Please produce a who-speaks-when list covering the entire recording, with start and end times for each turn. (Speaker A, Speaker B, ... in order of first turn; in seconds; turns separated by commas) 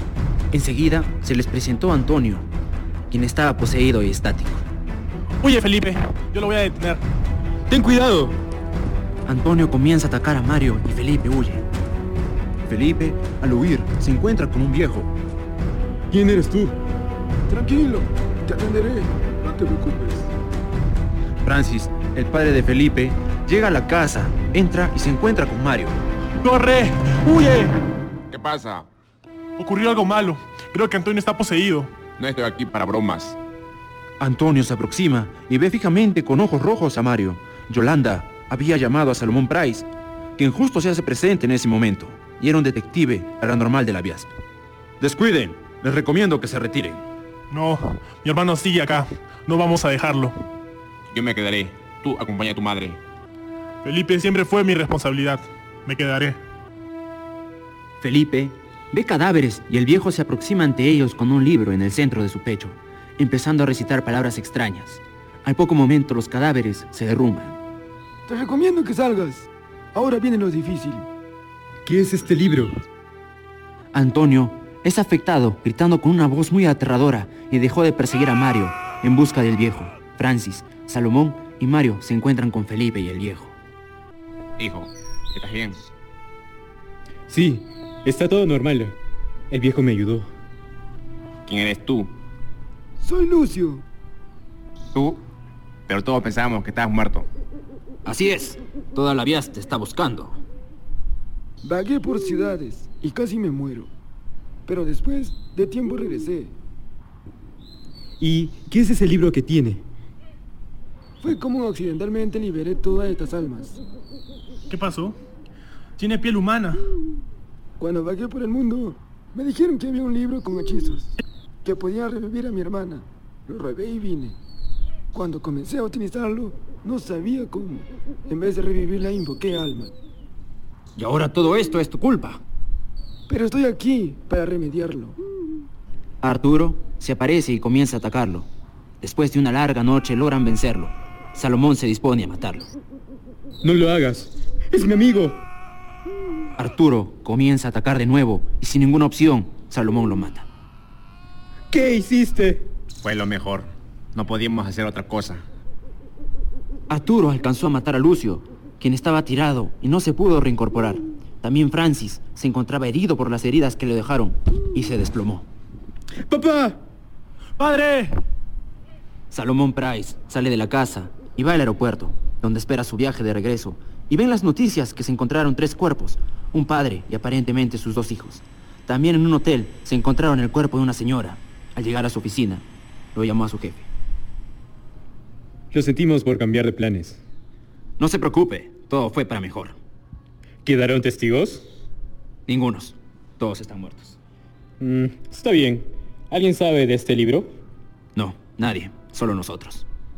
Speaker A: 0.5-2.5, Speaker A: 3.1-4.7, Speaker B: 5.4-7.0, Speaker C: 7.7-8.4, Speaker A: 9.3-11.7, Speaker A: 12.7-15.1, Speaker C: 16.1-16.8, Speaker D: 17.5-20.3, Speaker A: 21.4-26.0, Speaker B: 26.4-27.7, Speaker E: 28.3-28.9, Speaker B: 29.6-31.9, Speaker E: 32.2-33.4, Speaker A: 34.2-44.3, Speaker A: 45.0-47.0, Speaker B: 47.5-50.3, Speaker E: 51.1-53.0, Speaker B: 53.8-56.4, Speaker A: 58.0-67.6, Speaker D: 68.3-71.1, Speaker C: 71.9-72.8, Speaker A: 73.9-83.5, Speaker E: 84.6-85.8, Speaker C: 87.3-88.9, Speaker C: 89.5-90.3, Speaker E: 91.5-92.1, Speaker D: 93.0-93.8, Speaker E: 95.9-97.3, Speaker A: 98.1-100.4, Speaker D: 101.6-103.9, Speaker D: 104.7-106.5, Speaker C: 108.2-109.8, Speaker D: 111.2-113.8, Speaker B: 114.7-115.2, Speaker B: 116.0-116.8, Speaker D: 117.8-124.4, Speaker D: 125.1-129.9, Speaker A: 131.0-132.4, Speaker D: 133.3-135.2, Speaker A: 136.2-138.5, Speaker A: 139.0-142.7, Speaker C: 143.6-145.4, Speaker A: 146.6-150.5, Speaker C: 151.7-152.7, Speaker E: 153.0-155.4, Speaker A: 156.9-165.5, Speaker C: 166.3-166.8, Speaker B: 167.6-168.1, Speaker A: 169.3-182.6, Speaker A: 183.2-183.9, Speaker C: 185.7-187.2, Speaker A: 188.0-189.8, Speaker C: 190.6-191.7, Speaker A: 192.5-194.2, Speaker C: 194.8-197.5, Speaker A: 198.2-199.9